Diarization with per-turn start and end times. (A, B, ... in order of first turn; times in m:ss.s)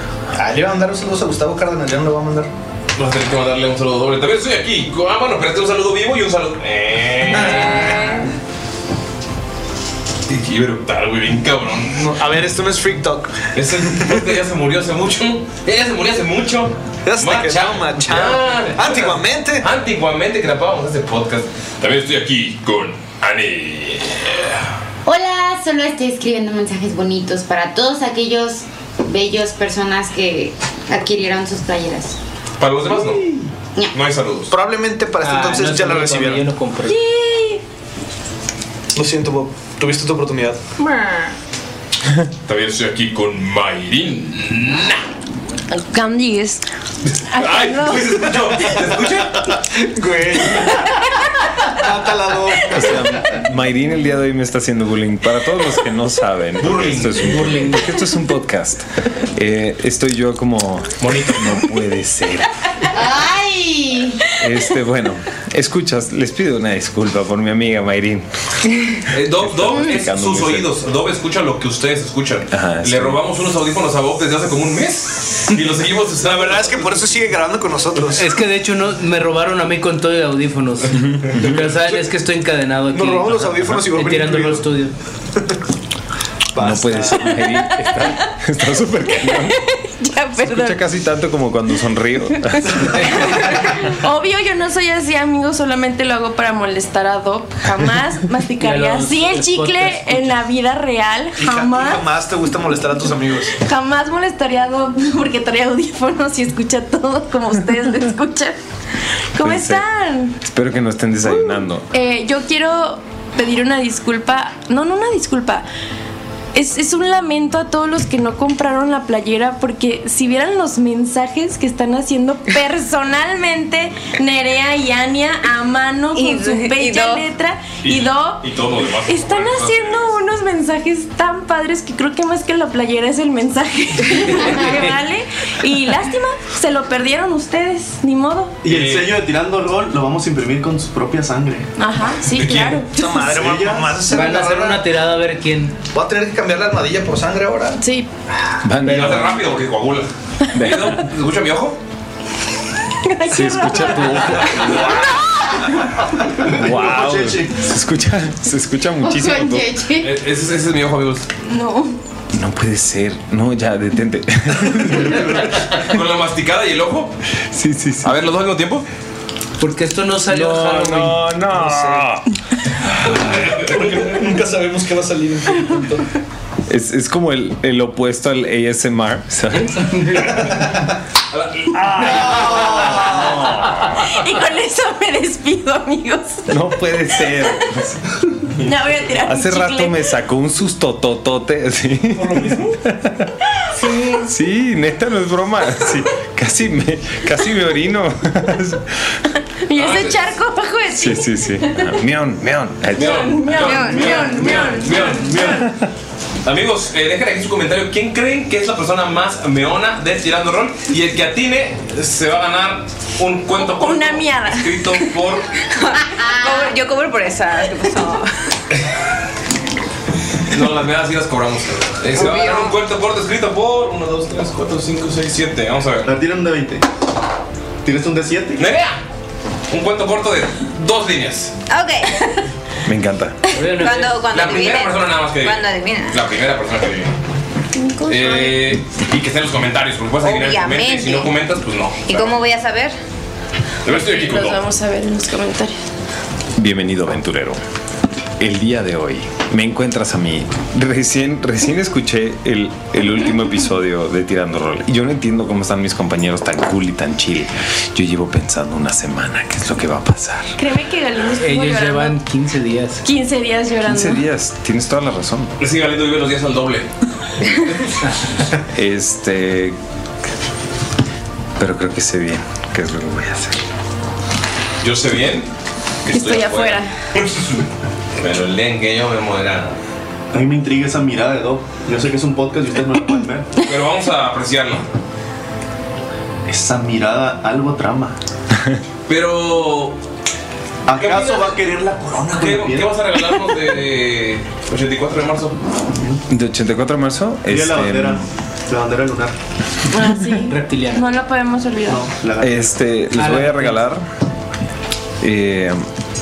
0:00.3-0:02.5 A
0:03.0-0:08.2 B
0:10.3-0:12.2 B
0:11.9-0:13.4 A
0:13.5-0:24.6 B
0:13.9-0:14.2 A
0:17.0-0:19.6 A
0:25.0-0:32.2 C
0:32.6-0:33.2 B
0:33.9-0:34.5 B
0:34.5-0:36.4 A
0:35.2-0:37.0 D
0:36.9-0:37.6 E
0:38.9-0:40.6 A
0:40.8-0:41.3 E
0:42.4-0:45.0 B
0:45.7-0:46.6 E
0:47.3-0:49.5 B
0:47.3-0:48.2 E
0:49.5-0:51.0 A
0:51.7-0:53.0 A
0:52.7-1:02.5 F
0:56.6-0:57.8 B
1:01.0-1:01.6 B
1:02.9-1:04.2 C
1:04.4-1:08.2 F
1:09.1-1:17.1 B
1:09.3-1:10.7 F
1:12.5-1:13.2 F
1:16.2-1:18.2 A
1:18.1-1:24.9 D
1:21.0-1:21.5 F
1:22.9-1:24.6 A
1:26.5-1:27.4 A
1:26.6-1:29.6 F
1:29.2-1:30.8 E
1:30.4-1:33.4 F
1:32.4-1:32.6 E
1:33.2-1:42.0 E
1:38.6-1:40.3 D
1:41.4-1:43.5 A
1:43.5-1:48.6 E
1:49.3-1:50.3 E
1:49.4-1:49.8 F
1:50.4-1:51.9 F
1:51.9-1:55.6 E
1:56.5-2:08.5 E
2:06.1-2:07.3 G
2:07.8-2:10.2 B
2:09.0-2:18.6 E
2:18.6-2:21.7 H
2:18.6-2:19.2 B
2:21.8-2:23.2 E
2:22.3-2:22.8 B
2:22.9-2:24.8 A
2:23.3-2:24.0 H
2:24.0-2:25.8 D
2:25.9-2:27.8 A
2:27.8-2:28.1 E
2:28.6-2:29.4 F
2:28.8-2:31.8 B
2:30.5-2:31.0 F
2:33.0-2:35.3 E
2:33.2-2:35.3 F
2:36.3-2:37.6 H
2:36.4-2:39.8 F
2:39.1-2:40.1 E
2:40.0-2:41.2 B
2:41.4-2:42.0 E
2:42.3-2:45.8 F
2:45.1-2:47.1 B
2:47.5-2:48.2 F
2:48.0-2:48.8 B
2:49.6-2:51.2 D
2:50.3-2:53.5 F
2:51.5-2:52.0 A
2:53.1-2:56.0 A
2:56.7-3:00.5 F
3:01.3-3:02.8 B
3:01.7-3:03.6 F
3:02.4-3:03.1 A
3:03.9-3:06.7 E
3:06.5-3:08.0 F
3:08.6-3:10.1 E
3:09.2-3:13.1 F
3:13.8-3:14.2 E
3:14.0-3:18.9 F
3:19.7-3:22.0 E
3:19.7-3:20.4 B
3:20.9-3:23.9 F
3:22.9-3:25.8 B
3:22.9-3:25.7 E
3:23.6-3:24.5 G
3:26.4-3:35.5 B
3:33.5-3:35.1 E
3:35.7-3:38.3 G
3:40.5-3:46.1 B
3:42.1-3:42.8 G
3:46.0-3:46.8 H
3:47.8-3:48.6 H
3:48.6-3:49.0 B
3:49.7-3:51.5 B
3:51.7-3:52.4 G
3:52.8-3:53.4 F
3:53.5-3:54.2 D
3:53.6-3:56.2 G
3:54.3-3:57.1 B
3:57.7-3:58.7 E
3:58.1-4:02.4 B
4:00.2-4:01.4 G
4:02.0-4:03.0 G
4:03.8-4:04.6 B
4:03.9-4:05.8 E
4:06.6-4:07.6 F
4:08.4-4:20.6 F
4:20.6-4:22.2 E
4:21.4-4:23.0 D
4:23.0-4:24.2 E
4:23.8-4:25.6 F
4:25.6-4:26.9 B
4:28.7-4:29.8 F
4:31.6-4:33.6 F
4:34.8-4:35.5 B
4:36.0-4:37.6 B
4:36.1-4:36.9 E
4:38.2-4:39.8 B
4:40.3-4:43.5 H
4:43.6-4:44.8 B
4:46.5-4:48.2 H
4:49.1-4:50.0 B
4:50.9-4:52.9 H
4:50.9-4:51.6 B
4:52.2-4:55.6 B
4:56.3-4:58.2 F
4:57.5-4:59.3 H
4:59.9-5:02.1 E
5:00.4-5:01.0 D
5:01.9-5:02.7 H
5:02.4-5:04.0 F
5:03.1-5:03.8 D
5:05.2-5:05.8 F